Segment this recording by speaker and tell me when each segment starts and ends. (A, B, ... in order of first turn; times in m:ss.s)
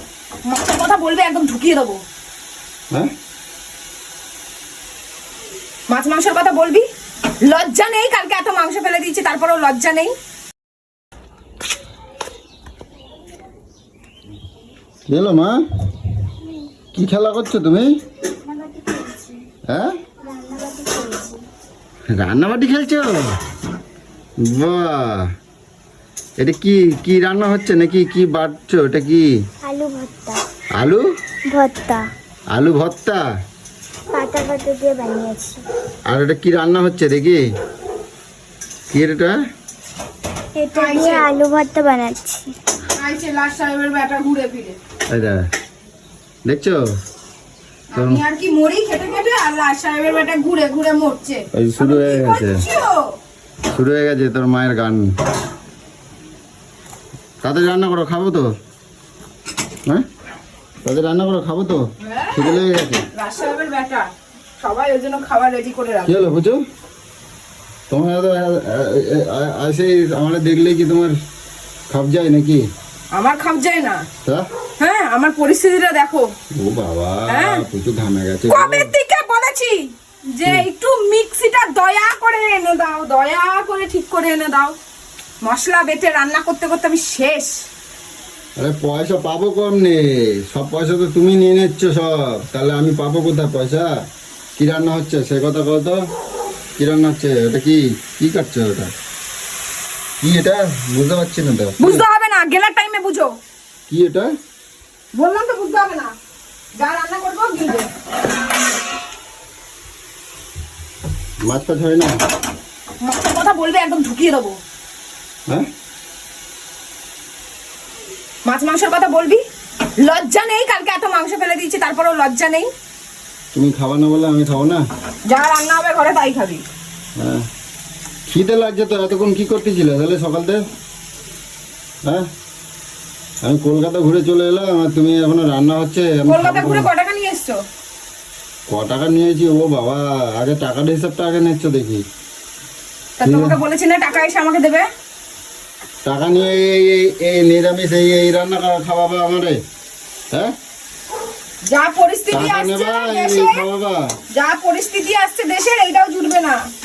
0:00.5-0:02.0 A
0:05.9-0:06.8 A
0:07.4-0:10.1 A
0:15.1-0:15.6 B
0:16.9-0:17.9 B
0:18.5-0:19.4 C
0:20.2-0:21.4 C
0:22.2-0:23.4 B
0:24.5-0:25.3 B
0:26.4-0:29.3 B
0:29.6-0:30.4 C
0:31.5-0:32.0 C
0:32.5-0:33.2 B
0:34.1-0:35.6 C
0:36.1-0:37.4 B
0:38.9-0:39.4 B
0:40.6-0:42.5 C
0:40.7-0:41.3 A
0:42.9-0:44.8 A
0:45.1-0:45.4 B
0:46.5-0:46.8 B
0:47.9-0:53.1 A
0:48.0-0:48.2 B
0:51.5-0:52.6 B
0:53.7-0:55.1 B
0:57.4-0:58.5 B
1:00.8-1:03.0 B
1:02.0-1:02.6 A
1:03.2-1:04.1 A
1:04.6-1:06.3 A
1:06.0-1:06.6 B
1:07.9-1:11.2 B
1:11.9-1:12.6 B
1:13.2-1:14.0 A
1:14.8-1:16.3 A
1:16.6-1:18.9 B
1:17.3-1:17.6 A
1:18.5-1:24.8 A
1:25.4-1:27.6 A
1:28.6-1:33.9 B
1:34.6-1:36.0 B
1:36.8-1:38.9 B
1:40.2-1:42.0 B
1:41.8-1:43.3 A
1:43.9-1:44.3 B
1:45.1-1:46.1 A
1:46.8-1:47.9 A
1:51.5-1:52.2 B
1:53.0-1:54.6 A
1:58.4-1:59.4 A
2:00.0-2:02.7 A
2:03.5-2:04.8 B
2:05.3-2:06.6 A
2:07.2-2:07.4 B
2:08.3-2:10.6 B
2:13.4-2:16.9 B
2:16.3-2:17.6 A
2:18.7-2:22.0 B
2:23.2-2:24.9 A
2:23.2-2:23.6 B
2:26.1-2:29.6 B
2:31.7-2:33.6 A
2:32.3-2:34.1 B
2:34.3-2:36.6 A